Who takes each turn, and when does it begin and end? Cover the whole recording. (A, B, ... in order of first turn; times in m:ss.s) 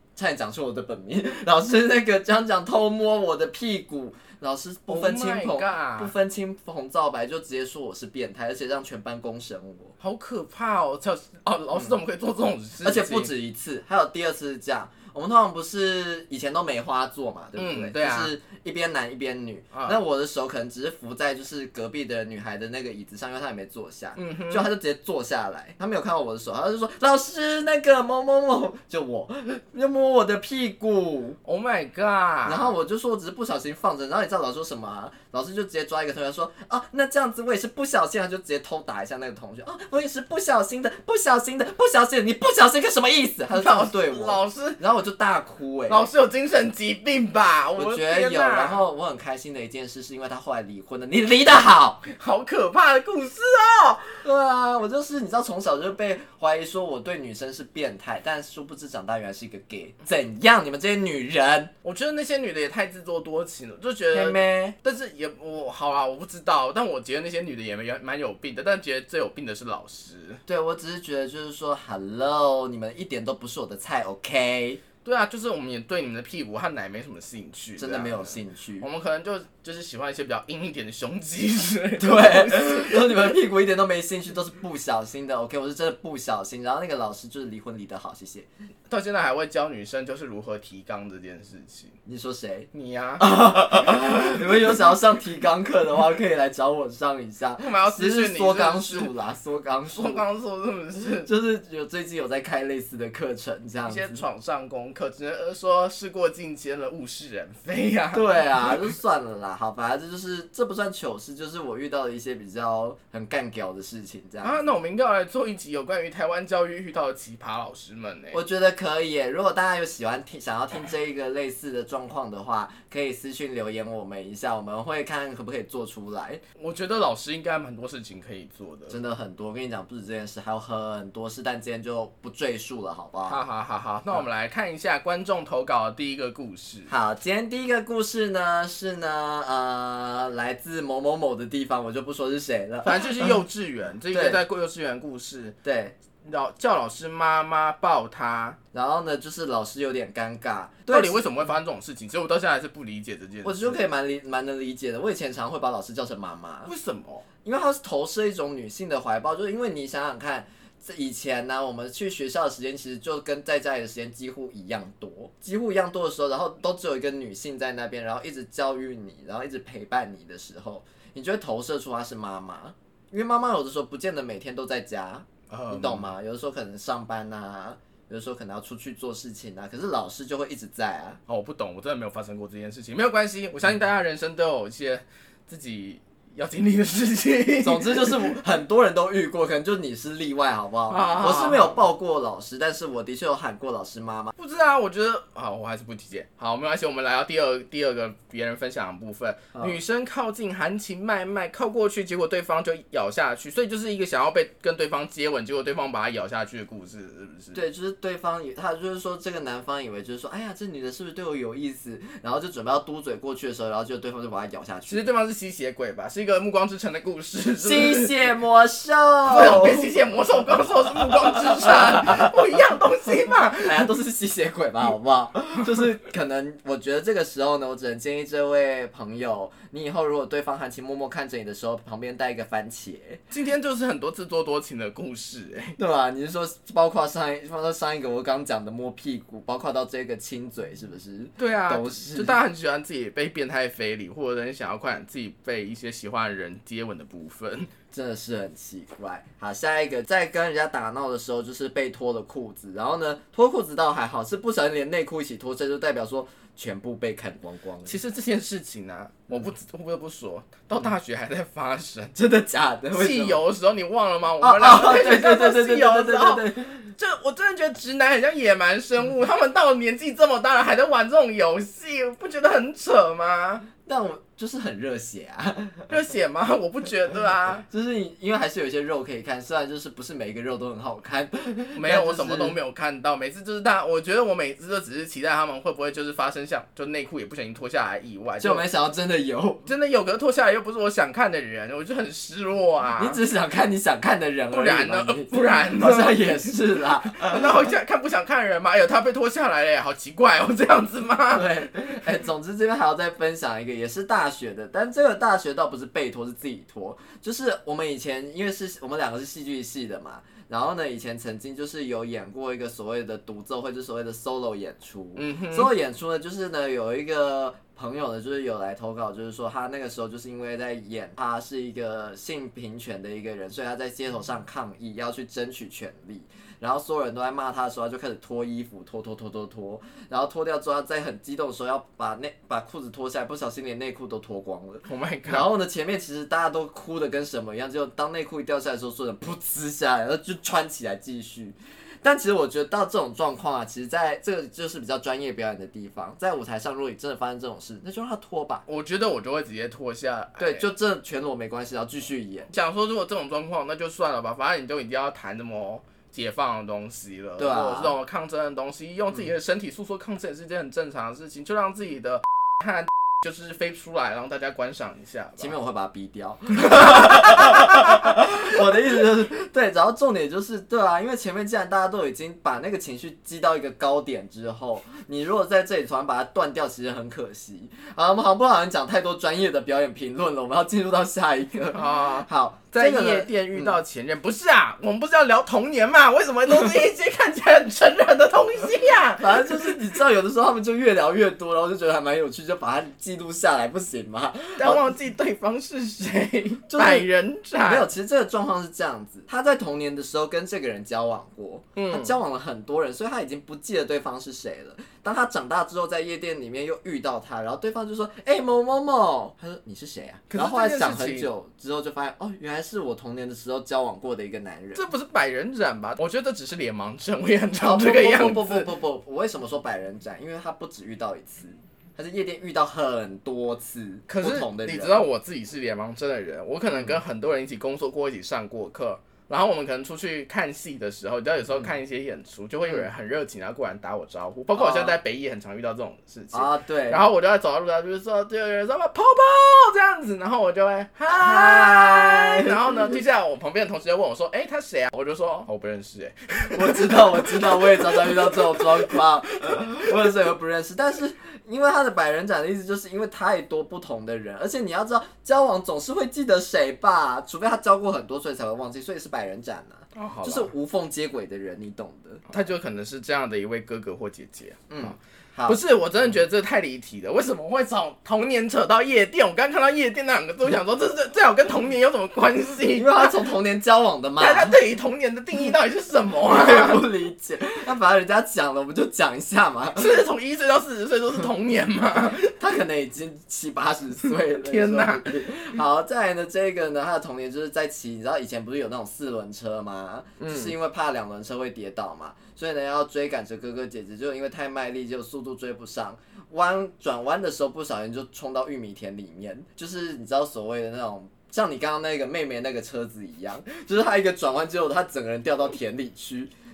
0:00.2-0:09.9 A
0:04.9-0:06.1 B
0:10.0-0:13.3 B
0:12.8-0:31.4 A
0:17.6-0:18.3 B
0:19.7-0:20.0 B
0:24.2-0:24.7 B
0:31.4-0:32.7 B
0:32.4-0:46.0 A
0:43.5-0:44.8 B
0:45.9-0:48.8 B
0:47.7-0:52.0 A
0:52.0-0:54.2 B
0:54.2-1:01.7 A
1:01.8-1:10.4 B
1:04.1-1:04.7 A
1:10.4-1:14.8 A
1:15.0-1:23.4 B
1:17.8-1:18.9 A
1:22.0-1:28.5 A
1:28.9-1:32.0 B
1:32.0-1:40.2 A
1:32.7-1:34.4 B
1:37.6-1:39.1 B
1:39.9-1:41.3 B
1:41.2-1:44.2 A
1:43.9-1:48.9 B
1:48.1-1:54.6 A
1:54.4-1:58.4 B
1:58.3-2:06.4 A
2:06.6-2:09.0 B
2:08.9-2:13.4 A
2:13.3-2:16.9 B
2:16.9-2:23.4 A
2:22.8-2:25.5 B
2:24.1-2:24.4 A
2:25.6-2:26.0 A
2:26.2-2:28.6 B
2:28.7-2:31.2 A
2:30.9-2:33.8 B
2:33.4-2:36.7 A
2:36.6-2:37.2 B
2:37.4-3:01.2 A
2:55.5-2:56.1 B
3:01.3-3:08.4 B
3:07.6-3:14.3 A
3:10.9-3:11.8 B
3:14.4-3:27.6 B
3:27.5-3:35.1 A
3:34.9-3:38.1 B
3:37.6-3:39.9 A
3:39.3-3:43.9 B
3:43.6-3:53.2 A
3:53.3-3:55.8 B
3:55.8-4:02.4 A
4:01.4-4:07.7 B
4:07.9-4:18.0 A
4:17.8-4:22.1 B
4:22.1-4:23.4 A
4:22.9-4:33.6 B
4:24.4-4:26.9 A
4:33.8-4:35.9 A
4:35.9-4:37.6 B
4:37.7-4:42.6 A
4:41.7-4:48.6 B
4:48.4-4:49.6 A
4:49.6-4:53.2 B
4:53.0-4:57.6 A
4:54.5-4:56.6 B
4:57.1-5:02.0 B
5:01.3-5:48.6 A
5:15.2-5:15.7 B
5:34.8-5:35.5 B
5:48.7-5:50.7 B
5:50.4-5:52.5 A
5:52.5-6:05.6 B
5:57.4-5:57.9 A
6:05.4-6:23.8 A
6:06.7-6:08.2 B
6:21.7-6:29.8 B
6:29.2-6:34.9 A
6:34.6-6:37.9 B
6:36.7-6:37.1 A
6:37.6-6:54.8 A
6:41.8-6:42.2 B
6:50.3-6:51.3 B
6:54.7-6:58.7 B
6:57.6-7:05.0 A
7:04.1-7:30.0 B
7:14.6-7:15.0 A
7:16.3-7:17.0 A
7:21.1-7:22.9 A
7:26.5-7:42.3 A
7:39.9-7:40.5 B
7:42.3-7:44.9 B
7:44.7-7:45.6 A
7:45.5-7:53.2 B
7:52.7-7:54.6 A
7:54.2-7:56.8 B
7:56.2-7:59.9 A
7:59.8-8:02.3 B
8:02.2-8:26.3 A
8:04.3-8:05.1 B
8:10.2-8:10.5 B